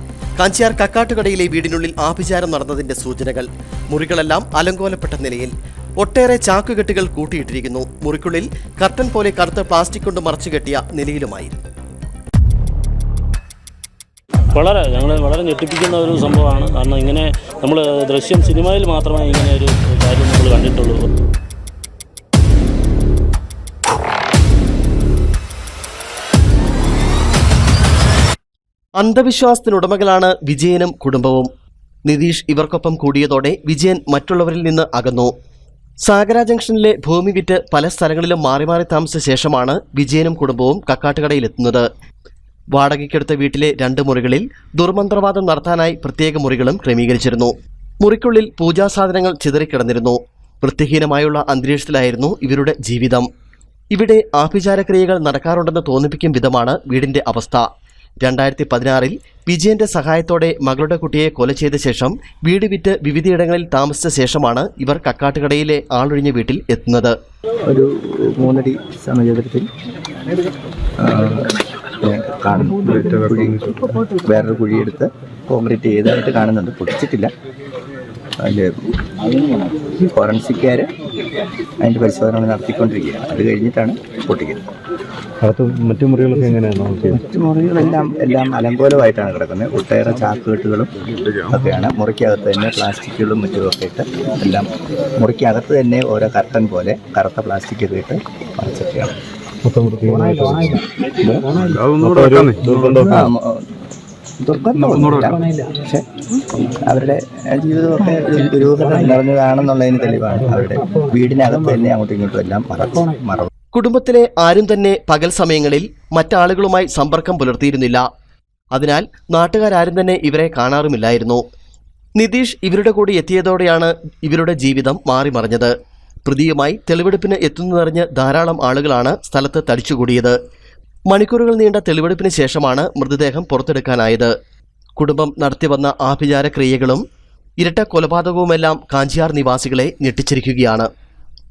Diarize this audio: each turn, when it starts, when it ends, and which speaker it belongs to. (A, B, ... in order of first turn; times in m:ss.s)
0:00.4-0:11.6 A
0:14.5-0:21.1 B
0:29.0-0:31.5 A
0:32.0-0:35.3 A
0:36.0-0:41.9 A
0:42.7-0:53.3 A
0:53.9-0:57.6 A
0:58.2-1:07.1 A
1:07.7-1:09.7 C
1:11.0-1:11.5 C
1:12.0-1:17.3 C
1:12.9-1:13.8 D
1:18.4-1:18.7 C
1:19.3-1:20.9 C
1:21.8-1:24.6 C
1:25.4-1:27.2 D
1:27.1-1:30.9 C
1:31.5-1:34.7 C
1:35.2-1:39.1 C
1:39.6-1:40.8 D
1:41.2-1:41.7 C
1:41.6-1:43.3 D
1:43.0-1:43.6 C
1:44.4-1:46.0 C
1:46.6-1:53.5 C
1:53.7-1:58.0 A
1:58.7-2:01.4 A
2:02.2-2:05.7 A
2:06.2-2:10.4 A
2:11.1-2:14.3 A
2:15.0-2:17.0 A
2:17.6-2:20.9 A